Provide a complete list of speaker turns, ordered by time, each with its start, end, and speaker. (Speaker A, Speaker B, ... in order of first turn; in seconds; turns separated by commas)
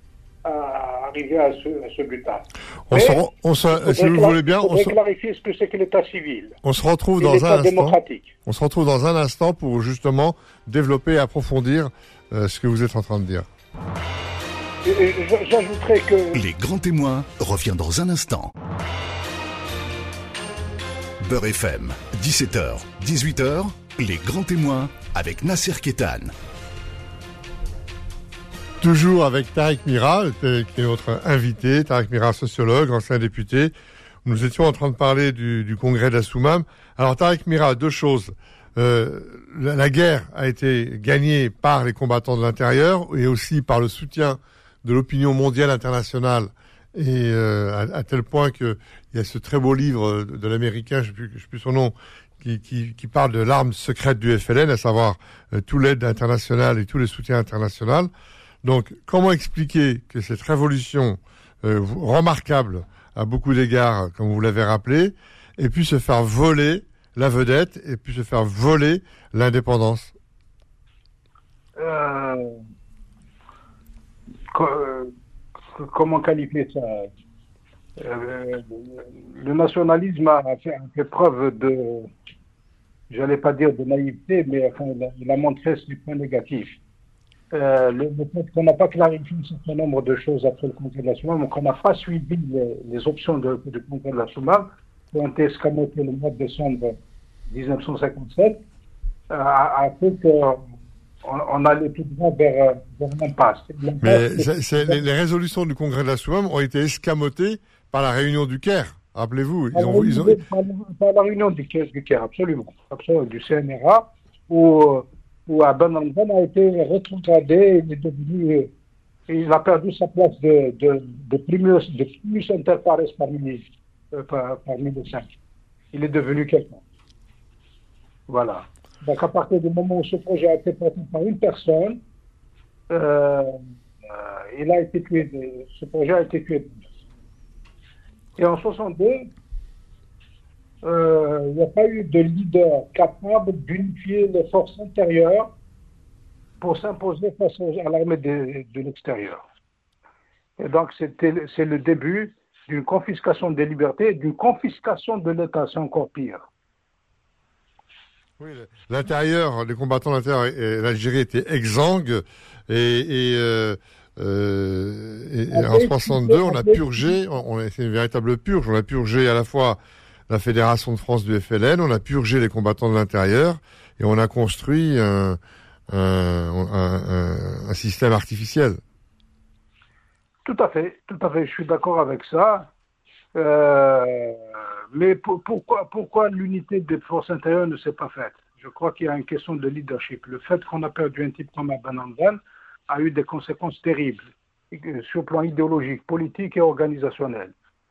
Speaker A: 0.5-6.6, Speaker B: 2.9-5.0, Speaker B: 6.6-13.5, Speaker A: 7.2-8.3, Speaker A: 14.8-16.4, Speaker C: 16.4-18.5, Speaker C: 21.2-26.3, Speaker B: 28.8-33.7, Speaker B: 34.2-58.1, Speaker B: 58.6-70.1, Speaker A: 71.8-72.6, Speaker A: 74.5-75.1, Speaker A: 75.7-77.1, Speaker A: 78.0-82.1, Speaker A: 83.1-86.8, Speaker A: 87.5-97.0, Speaker A: 97.5-98.6, Speaker A: 99.3-100.7, Speaker A: 101.2-105.0, Speaker B: 104.0-110.4, Speaker A: 109.7-118.7, Speaker A: 119.3-125.3, Speaker A: 125.9-126.8, Speaker A: 128.3-132.0, Speaker A: 132.9-136.8, Speaker A: 138.4-139.3, Speaker A: 140.8-145.5, Speaker A: 146.6-149.4, Speaker A: 150.6-156.4, Speaker B: 158.4-175.4, Speaker A: 165.5-167.1, Speaker B: 175.9-178.8, Speaker A: 180.4-182.7, Speaker A: 183.4-184.4, Speaker A: 184.9-197.5